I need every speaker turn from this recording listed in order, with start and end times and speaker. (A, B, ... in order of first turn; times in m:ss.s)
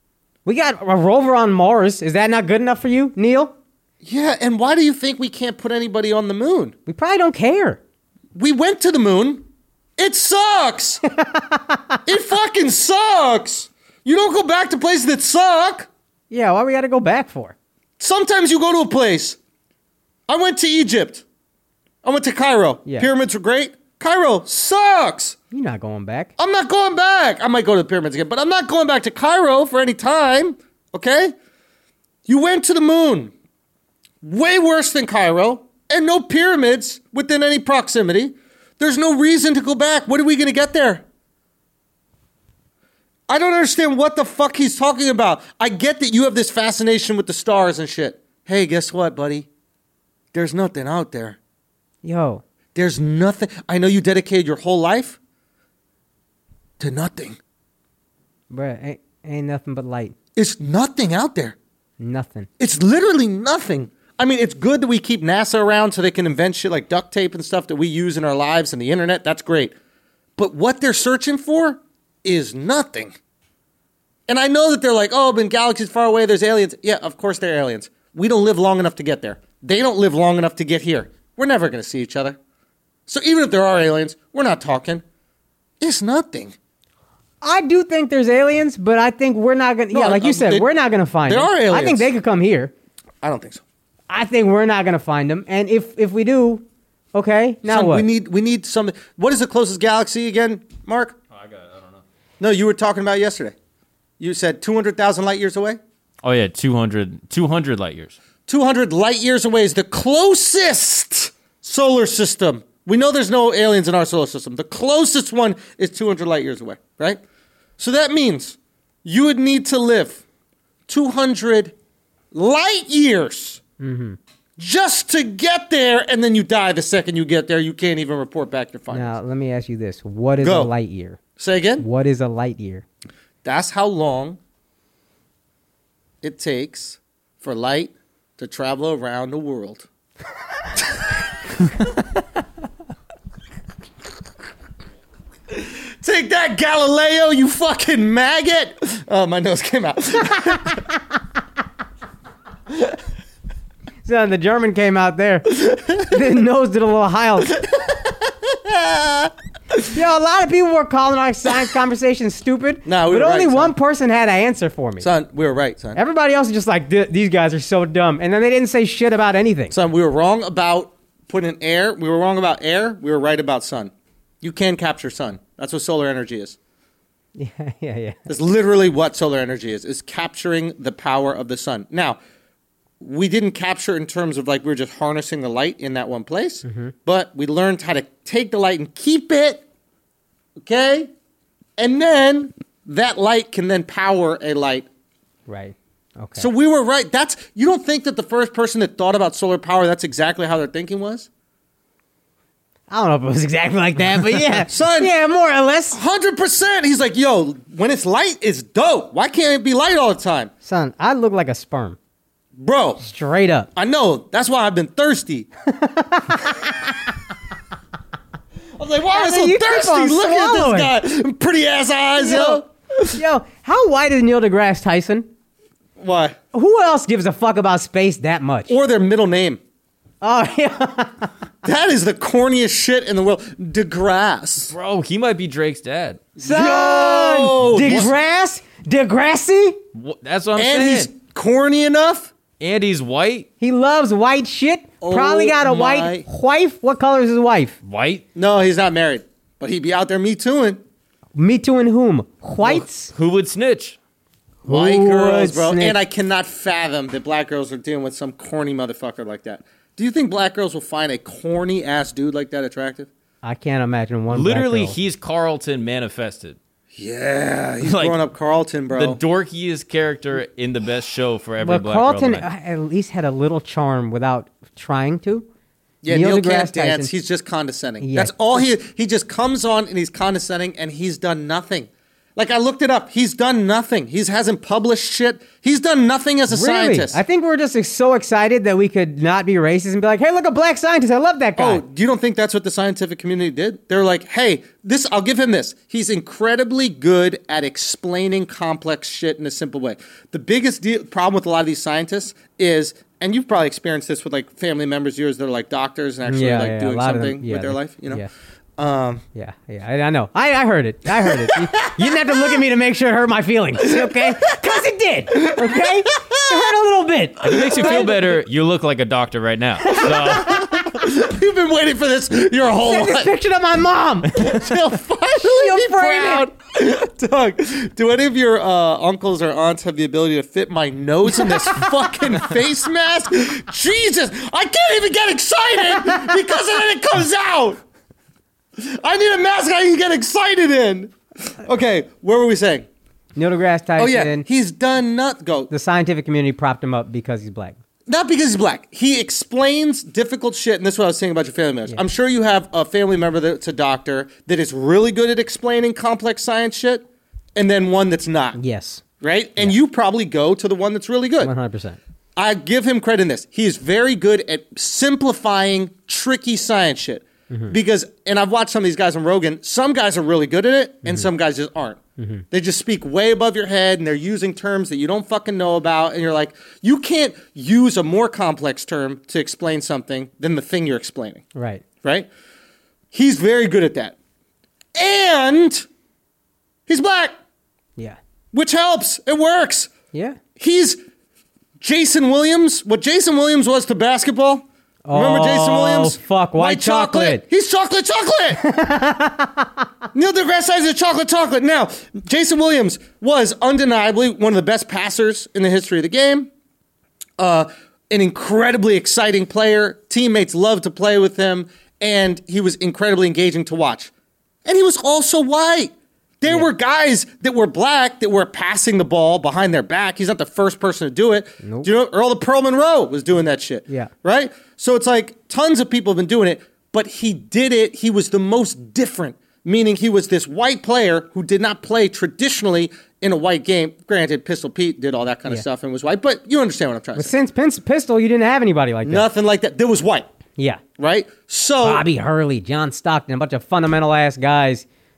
0:00.4-0:03.5 A
0:04.0-0:06.7 B
0:06.9-0:07.8 A
0:08.3-0:09.4 B
0:10.0-0:11.0 B
0:11.1-0:12.0 A
0:12.0-0:15.9 B
0:16.3-0:17.5 A
0:18.0-0:19.4 B
0:20.3-0:21.2 B
0:22.0-0:25.4 B
0:25.5-0:26.3 A
0:26.4-0:31.3 B
0:32.2-0:33.3 B
0:34.2-0:41.0 B
0:43.3-0:49.5 B
0:50.3-0:51.4 B
0:52.0-0:52.4 A
0:52.7-0:55.2 B
0:56.8-0:57.4 B
0:58.5-1:00.1 A
1:00.4-1:01.6 B
1:02.0-1:02.5 A
1:02.6-1:09.7 B
1:10.4-1:13.1 B
1:14.3-1:22.4 B
1:23.1-1:25.0 B
1:25.8-1:26.5 B
1:27.4-1:32.7 A
1:29.9-1:30.7 B
1:31.3-1:32.1 B
1:33.2-1:33.6 B
1:34.1-1:38.0 A
1:37.6-1:41.2 B
1:41.3-1:42.0 C
1:42.4-1:43.5 B
1:44.2-1:45.8 B
1:46.2-1:48.2 C
1:48.5-1:57.2 B
1:57.8-2:00.2 B
2:00.9-2:01.7 B
2:02.3-2:03.6 B
2:03.8-2:04.2 A
2:04.6-2:09.2 B
2:08.9-2:11.2 A
2:10.4-2:10.7 B
2:11.4-2:11.8 B
2:11.8-2:12.8 A
2:13.4-2:14.4 B
2:16.2-2:19.9 B
2:20.8-2:21.1 B
2:25.5-2:30.8 B
2:34.0-2:37.5 A
2:35.6-2:36.1 B
2:37.5-2:39.8 B
2:39.9-2:45.1 A
2:42.8-2:43.7 B
2:45.0-2:46.0 B
2:45.9-2:49.7 A
2:49.7-2:53.9 B
2:54.4-2:56.6 B
2:57.4-2:58.2 A
2:58.3-3:02.2 B
3:03.0-3:09.6 B
3:06.6-3:06.9 A
3:10.6-3:11.1 B
3:11.8-3:14.9 B
3:15.5-3:16.5 A
3:16.4-3:21.3 B
3:22.9-3:26.0 A
3:24.6-3:25.1 B
3:25.9-3:30.5 B
3:30.6-3:32.0 A
3:32.6-3:33.0 B
3:33.0-3:33.7 A
3:33.8-3:35.5 B
3:35.7-3:37.0 A
3:38.8-3:43.2 B
3:39.1-3:40.9 A
3:42.2-3:45.3 A
3:46.0-3:46.4 B
3:46.5-3:48.7 A
3:48.7-3:49.6 B
3:50.2-3:51.3 A
3:51.6-3:54.7 B
3:54.7-3:56.2 C
3:56.4-3:58.1 B
3:56.4-3:59.8 A
3:59.9-4:01.1 C
4:00.6-4:02.3 B
4:02.6-4:03.5 C
4:03.6-4:07.8 A
4:05.0-4:06.2 B
4:07.8-4:08.2 C
4:08.3-4:10.8 B
4:11.4-4:13.1 A
4:12.6-4:14.0 C
4:14.6-4:16.0 A
4:14.6-4:23.1 B
4:23.4-4:24.9 A
4:24.3-4:26.6 C
4:26.9-4:29.2 B
4:27.8-4:28.2 C
4:28.9-4:32.4 C
4:31.6-4:35.4 A
4:36.0-4:47.2 B
4:36.1-4:37.1 A
4:38.0-4:38.3 A
4:46.5-4:51.8 A
4:51.6-5:08.2 B
5:06.2-5:08.3 A
5:08.8-5:09.2 B
5:09.3-5:18.2 A
5:11.2-5:12.4 B
5:13.9-5:14.2 B
5:15.3-5:16.4 B
5:17.4-5:20.7 C
5:17.4-5:18.3 B
5:19.9-5:20.7 A
5:20.0-5:23.3 B
5:22.8-5:24.4 A
5:24.3-5:37.8 B
5:25.4-5:26.4 A
5:31.4-5:31.9 A
5:38.8-5:42.9 B
5:43.4-5:44.4 A
5:44.0-5:45.7 B
5:45.7-5:47.8 A
5:48.1-5:58.6 B
5:58.6-5:59.0 A
5:59.2-6:01.5 B
6:01.4-6:02.0 A
6:02.4-6:12.0 B
6:12.2-6:12.4 A
6:12.5-6:21.4 B
6:21.5-6:21.8 A
6:22.0-6:22.3 B
6:23.1-6:24.2 B
6:25.0-6:25.8 B
6:26.9-6:27.3 B
6:28.5-6:29.9 B
6:30.1-6:30.4 A
6:30.6-6:31.0 B
6:31.8-6:38.6 B
6:35.0-6:37.4 A
6:38.6-6:39.7 A
6:40.1-6:46.5 B
6:47.4-6:54.1 B
6:54.6-7:17.3 B
7:01.6-7:01.9 A
7:17.2-7:19.2 A
7:19.0-7:20.3 B
7:21.0-7:22.0 B
7:21.8-7:24.8 A